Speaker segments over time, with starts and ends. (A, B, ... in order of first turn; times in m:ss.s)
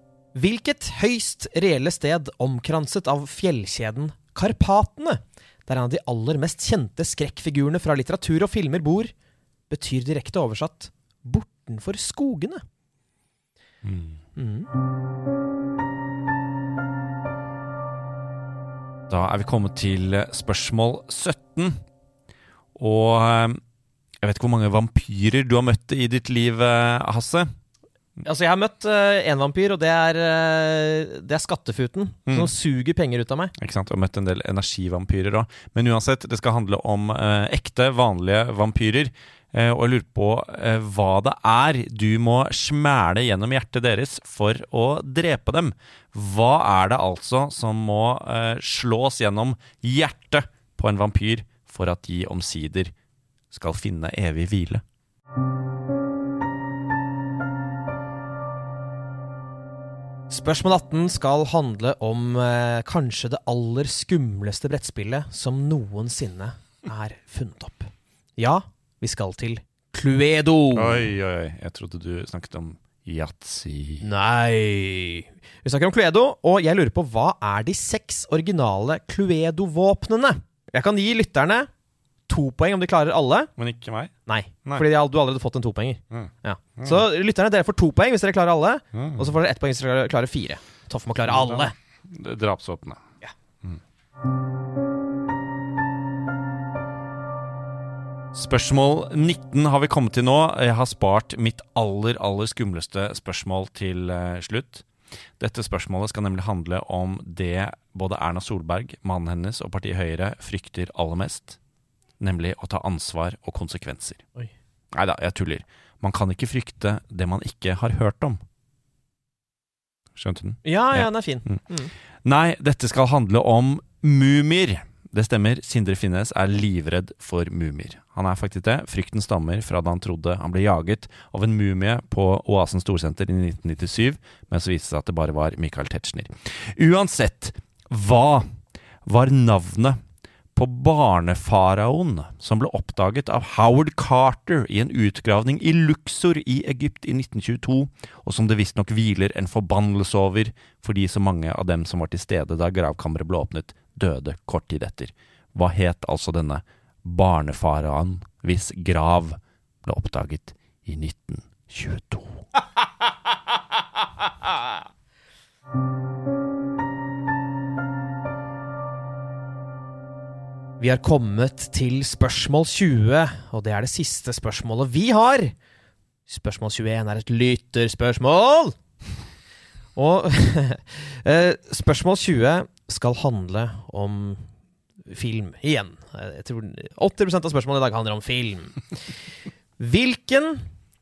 0:00.3-0:09.1 A
0:09.7-0:12.6 A
0:13.8-0:14.2 B
0:14.4-0:14.7 A
0:19.1-0:21.8 B
0:22.8-0:23.6 B
0:24.2-0:27.5 B
0:28.2-0:33.5 A
0:33.6-0:52.9 B
0:53.5-0:54.8 B
1:00.3-1:11.1 A
1:10.7-1:14.0 B
1:14.0-1:21.7 A
1:22.3-1:23.5 A
1:23.6-1:24.1 B
1:24.3-1:31.7 A
1:26.1-1:27.0 B
1:28.9-1:29.3 B
1:31.2-1:33.0 B
1:38.3-1:44.8 B
1:45.4-1:51.6 B
1:52.2-1:54.2 B
1:54.9-1:58.4 B
2:00.2-2:01.6 B
2:00.6-2:01.9 A
2:02.2-2:18.5 B
2:19.0-2:20.0 B
2:20.6-2:42.4 B
2:50.8-2:55.5 A
2:56.3-2:58.8 A
3:00.0-3:04.5 A
3:05.1-3:08.8 A
3:09.8-3:10.6 A